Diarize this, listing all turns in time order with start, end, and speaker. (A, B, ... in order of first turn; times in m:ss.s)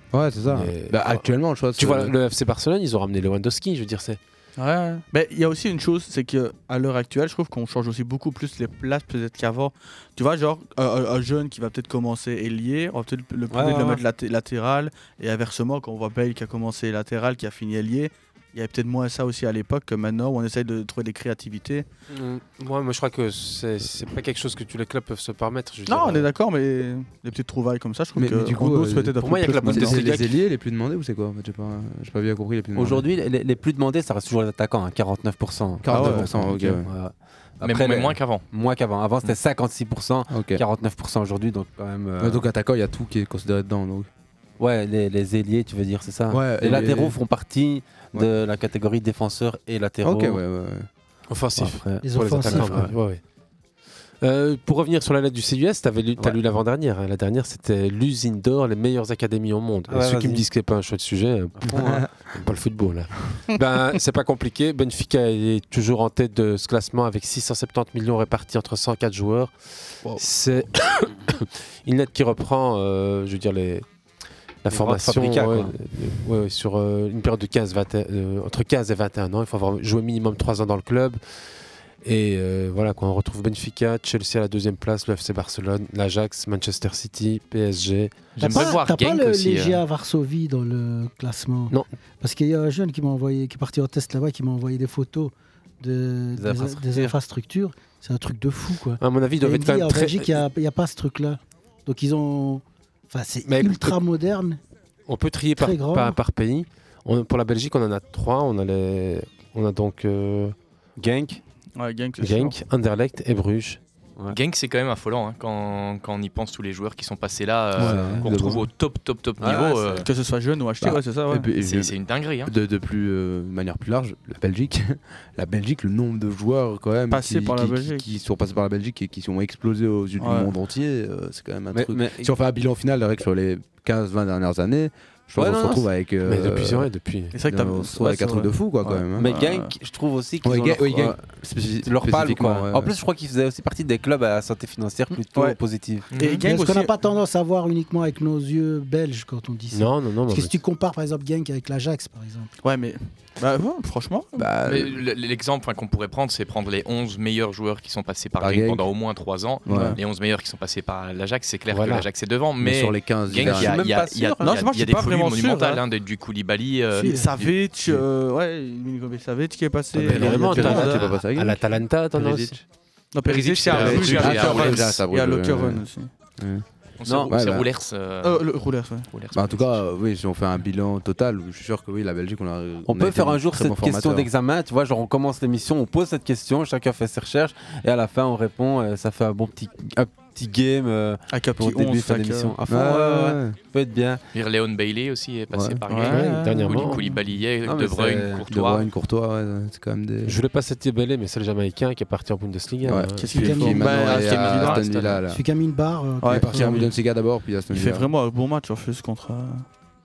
0:00.1-0:02.2 A
0:00.5-0:01.2 B
0:01.8-0:04.2 B
0:04.6-0:21.9 C
0:13.5-0:14.0 D
0:22.2-0:26.3 B
0:25.9-0:30.2 C
0:28.2-0:33.0 A
0:29.2-0:30.2 B
0:32.8-0:42.5 D
0:35.8-0:36.9 A
0:35.9-0:36.3 C
0:37.6-0:38.4 E
0:40.3-0:40.6 A
0:42.2-0:44.1 A
0:44.6-0:50.4 D
0:46.3-0:47.2 A
0:50.0-0:50.9 A
0:51.3-0:53.2 B
0:51.6-0:53.0 D
0:52.0-0:52.8 F
0:54.2-1:01.7 B
0:59.9-1:00.5 D
1:01.6-1:02.1 D
1:02.2-1:09.5 B
1:10.2-1:13.8 B
1:14.6-1:21.2 B
1:14.7-1:15.7 D
1:22.0-1:28.7 B
1:28.4-1:29.8 E
1:28.4-1:44.6 F
1:36.4-1:37.1 D
1:39.0-1:40.4 B
1:43.4-1:44.0 B
1:45.1-1:50.6 B
1:45.6-1:46.2 F
1:51.0-1:51.4 D
1:51.8-1:52.6 C
1:52.2-1:53.8 B
1:54.3-2:00.1 E
1:57.8-1:58.6 D
1:57.8-1:58.3 A
1:59.4-2:00.1 D
2:00.0-2:01.5 C
2:00.8-2:02.0 A
2:01.6-2:02.5 E
2:02.5-2:16.9 A
2:07.1-2:08.1 C
2:10.2-2:10.5 C
2:11.7-2:12.3 D
2:15.4-2:15.8 D
2:16.2-2:17.4 B
2:17.4-2:19.7 C
2:17.4-2:19.4 A
2:19.2-2:21.2 D
2:20.4-2:22.9 A
2:21.8-2:26.1 D
2:25.3-2:25.6 C
2:26.1-2:26.5 E
2:26.1-2:26.9 C
2:26.4-2:32.5 F
2:29.7-2:30.6 B
2:32.6-2:34.4 C
2:34.4-2:35.0 A
2:34.6-2:47.1 E
2:38.4-2:38.9 A
2:39.7-2:40.0 A
2:39.7-2:40.0 C
2:41.7-2:42.1 B
2:42.6-2:43.8 A
2:43.3-2:44.6 D
2:44.4-2:45.8 C
2:47.0-2:47.3 F
2:47.0-2:51.1 C
2:47.4-2:48.0 A
2:49.9-2:52.6 A
2:50.1-2:52.6 B
2:50.6-2:50.9 F
2:53.1-2:56.1 C
2:53.2-2:55.0 E
2:53.7-2:55.8 A
2:56.4-2:56.6 A
2:57.0-2:58.5 E
2:57.0-2:57.3 D
2:57.3-2:57.7 A
2:58.2-2:59.1 C
2:59.1-2:59.8 E
2:59.3-3:04.3 A
3:02.9-3:14.2 D
3:11.3-3:12.6 C
3:12.7-3:13.6 A
3:14.3-3:18.9 E
3:15.5-3:15.8 A
3:15.9-3:16.8 C
3:16.0-3:17.0 B
3:17.6-3:18.5 D
3:18.5-3:20.4 A
3:20.2-3:23.5 B
3:22.8-3:25.4 A
3:23.2-3:24.8 C
3:23.3-3:23.9 F
3:23.9-3:25.2 E
3:25.3-3:26.9 F
3:26.2-3:26.9 C
3:26.3-3:28.1 A
3:27.7-3:29.7 C